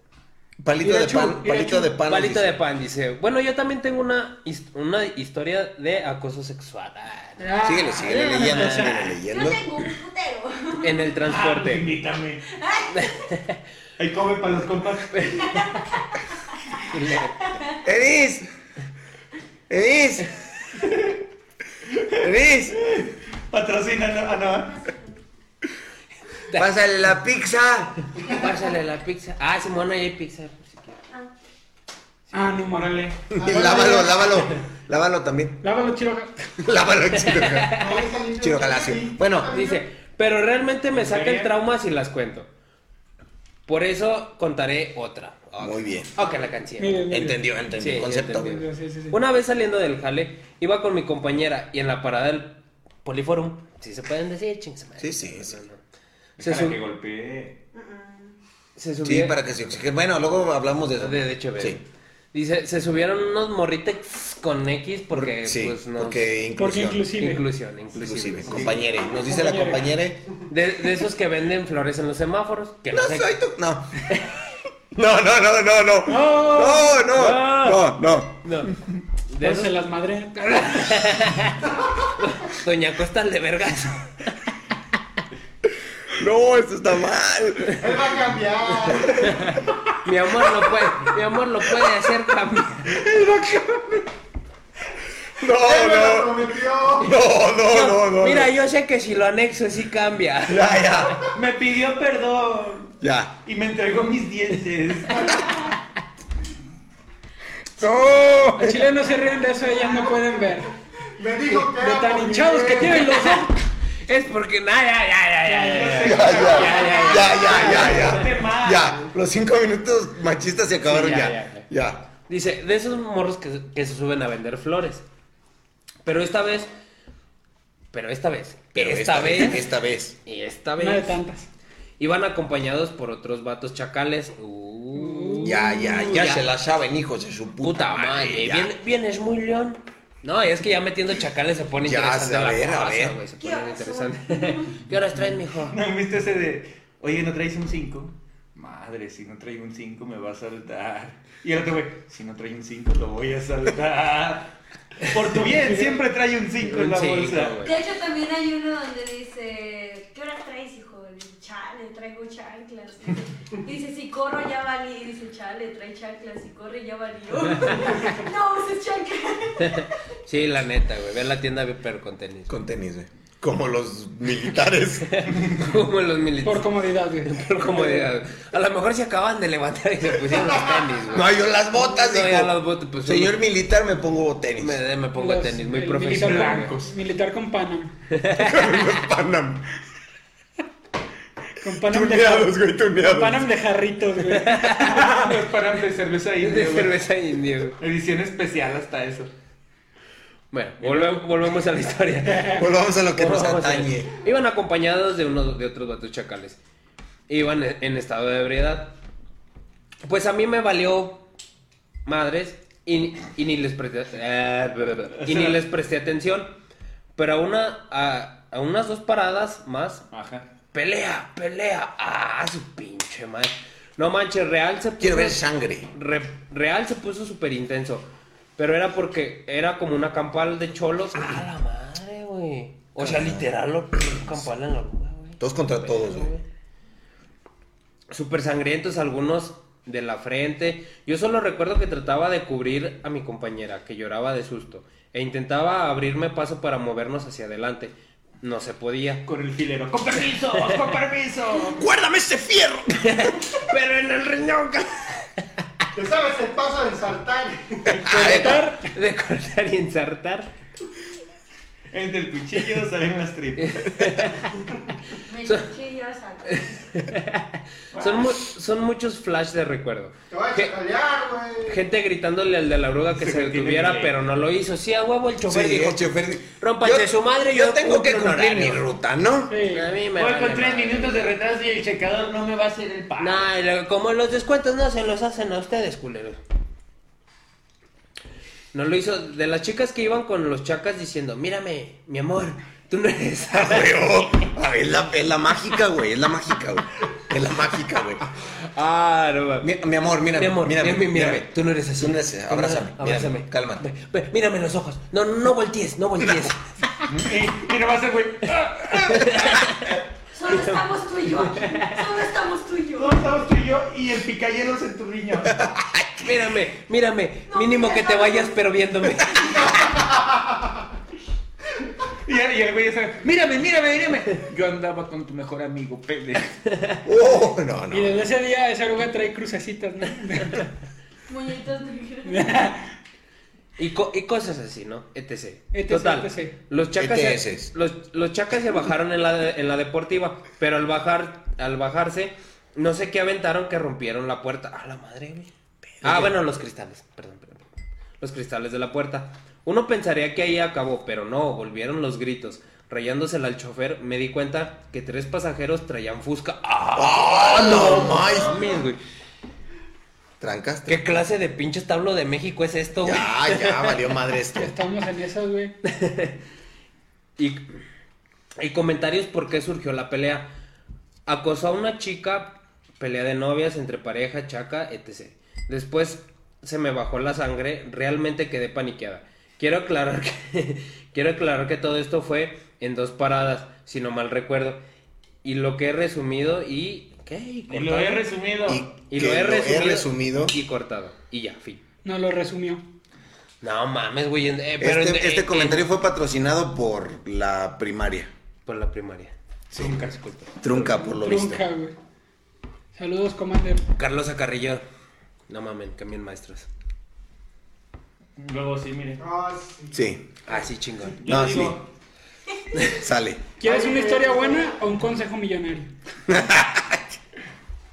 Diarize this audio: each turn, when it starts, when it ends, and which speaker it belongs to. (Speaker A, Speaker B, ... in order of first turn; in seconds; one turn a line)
Speaker A: 0.6-2.6
Speaker B: 0.8-1.9
Speaker C: 2.1-7.5
Speaker B: 7.4-9.2
Speaker A: 7.6-9.6
Speaker D: 9.2-11.0
Speaker C: 10.8-11.9
Speaker E: 11.3-12.4
Speaker D: 12.5-13.2
Speaker C: 12.9-13.6
Speaker E: 14.0-15.3
Speaker C: 15.1-15.7
Speaker D: 15.5-15.8
Speaker C: 16.9-17.3
Speaker A: 17.9-18.5
Speaker A: 19.7-20.3
Speaker E: 20.8-21.1
Speaker E: 21.9-24.7
Speaker A: 22.2-22.8
Speaker D: 24.7-25.2
Speaker A: 26.5-28.1
Speaker C: 28.3-31.0
Speaker B: 32.3-33.0
Speaker E: 32.6-33.2
Speaker F: 33.4-34.3
Speaker A: 33.4-35.6
Speaker B: 33.6-34.0
Speaker B: 35.6-36.3
Speaker A: 36.6-37.8
Speaker C: 37.3-38.0
Speaker F: 37.8-39.8
Speaker A: 38.4-39.5
Speaker C: 39.5-42.5
Speaker E: 40.9-41.5
Speaker C: 43.7-47.1
Speaker A: 45.6-46.1
Speaker B: 46.8-47.4
Speaker A: 47.1-48.6
Speaker C: 47.8-55.8
Speaker B: 48.3-49.2
Speaker A: 55.0-55.6
Speaker E: 56.4-57.6
Speaker C: 56.4-56.8
Speaker D: 57.8-58.3
Speaker C: 58.8-59.4
Speaker A: 59.0-61.8
Speaker C: 61.0-66.3
Speaker A: 65.1-67.2
Speaker B: 66.6-67.4
Speaker C: 67.2-68.8
Speaker A: 67.9-70.2
Speaker B: 69.3-69.8
Speaker C: 70.5-73.3
Speaker A: 72.9-74.1
Speaker A: 74.9-78.4
Speaker B: 76.1-77.0
Speaker C: 77.1-78.8
Speaker C: 79.3-79.8
Speaker B: 79.4-80.9
Speaker C: 80.5-84.3
Speaker A: 86.1-87.8
Speaker F: 87.8-89.6
Speaker C: 90.0-93.0
Speaker B: 93.1-94.0
Speaker A: 95.4-98.5
Speaker F: 95.5-97.1
Speaker C: 97.7-100.8
Speaker A: 100.5-101.3
Speaker E: 101.3-102.9
Speaker A: 103.0-103.3
Speaker E: 103.5-105.4
Speaker A: 107.8-108.8
Speaker B: 108.6-110.7
Speaker F: 111.2-113.0
Speaker B: 111.7-113.5
Speaker C: 113.1-113.5
Speaker C: 114.1-118.2
Speaker E: 115.5-119.0
Speaker A: 116.0-122.1
Speaker C: 120.8-121.7
Speaker C: 122.3-125.0
Speaker C: 126.0-126.7
Speaker C: 127.9-129.7
Speaker A: 128.7-130.2
Speaker C: 130.3-131.2
Speaker B: 130.8-131.5
Speaker C: 132.0-136.5
Speaker B: 134.9-135.5
Speaker A: 135.4-138.7
Speaker C: 137.6-145.8
Speaker A: 141.8-143.2
Speaker D: 143.4-144.8
Speaker E: 145.7-157.6
Speaker C: 156.6-157.8
Speaker D: 157.6-169.9
Speaker C: 169.6-172.5
Speaker A: 172.5-175.3
Speaker C: 175.1-176.7
Speaker B: 176.4-178.1
Speaker C: 177.2-183.4
Speaker A: 181.1-184.8
Speaker C: 184.6-186.8
Speaker B: 185.2-187.9
Speaker E: 186.0-187.0
Speaker C: 188.1-188.9
Speaker A: 188.3-189.7
Speaker B: 191.6-195.3
Speaker A: 191.9-193.5
Speaker C: 194.3-195.0
Speaker E: 194.8-197.0
Speaker C: 196.4-197.8
Speaker E: 197.8-199.3
Speaker C: 200.5-206.6
Speaker E: 200.8-201.3
Speaker A: 202.4-204.1
Speaker C: 207.3-208.9
Speaker C: 210.0-211.2
Speaker C: 212.1-216.6
Speaker E: 215.2-215.6
Speaker C: 217.2-220.1
Speaker E: 220.1-220.5
Speaker C: 220.7-225.4
Speaker A: 225.0-225.9
Speaker C: 225.9-236.4
Speaker A: 233.0-233.4
Speaker A: 235.4-236.3
Speaker C: 238.1-249.2
Speaker E: 249.3-251.8
Speaker A: 251.8-253.1
Speaker C: 253.0-255.3
Speaker F: 255.9-257.9
Speaker A: 257.9-258.7
Speaker B: 258.1-258.9
Speaker C: 258.2-260.5
Speaker E: 261.9-264.3
Speaker C: 263.6-264.6
Speaker D: 265.3-266.8
Speaker C: 265.4-265.7
Speaker C: 266.5-270.8
Speaker E: 267.9-268.4
Speaker F: 270.3-271.8
Speaker C: 271.7-278.8
Speaker E: 273.1-274.1
Speaker A: 275.5-279.6
Speaker B: 279.5-279.9
Speaker C: 279.7-281.3
Speaker E: 280.1-283.4
Speaker C: 283.2-286.4
Speaker C: 288.7-294.1
Speaker A: 293.5-298.2
Speaker C: 298.6-299.7
Speaker A: 299.6-303.8
Speaker C: 300.3-306.6
Speaker A: 306.2-306.5
Speaker E: 307.1-309.3
Speaker C: 308.9-312.1
Speaker D: 310.3-313.2
Speaker E: 313.0-315.6
Speaker A: 315.5-316.3
Speaker C: 316.2-320.0
Speaker D: 317.5-318.6
Speaker E: 322.3-326.6
Speaker A: 327.1-328.2
Speaker B: 327.9-330.7
Speaker D: 331.3-332.4
Speaker B: 332.2-332.9
Speaker C: 333.8-345.5
Speaker B: 335.7-336.5
Speaker A: 337.0-337.7
Speaker A: 346.0-346.4
Speaker C: 346.0-347.7
Speaker C: 348.2-359.0
Speaker A: 356.9-358.6
Speaker A: 360.4-361.1
Speaker C: 360.9-364.1
Speaker A: 363.0-364.7
Speaker B: 364.6-365.8
Speaker C: 365.9-366.4
Speaker C: 367.4-367.6
Speaker C: 368.6-370.5
Speaker C: 371.3-384.8
Speaker C: 385.4-388.3
Speaker E: 387.7-388.8
Speaker A: 388.7-390.6
Speaker C: 389.1-391.8
Speaker B: 392.0-392.8
Speaker C: 393.6-395.9
Speaker A: 394.8-398.3
Speaker C: 398.7-399.3
Speaker A: 399.7-400.0
Speaker E: 399.7-401.0
Speaker A: 400.6-401.6
Speaker B: 401.0-401.9
Speaker B: 402.9-403.8
Speaker C: 404.0-404.8
Speaker C: 405.5-406.7
Speaker E: 408.4-409.2
Speaker F: 409.2-410.0
Speaker A: 409.9-410.2
Speaker C: 410.5-411.2
Speaker E: 411.1-411.9
Speaker A: 411.3-411.8
Speaker A: 413.0-413.4
Speaker B: 413.6-415.9
Speaker F: 413.6-414.7
Speaker A: 416.3-417.0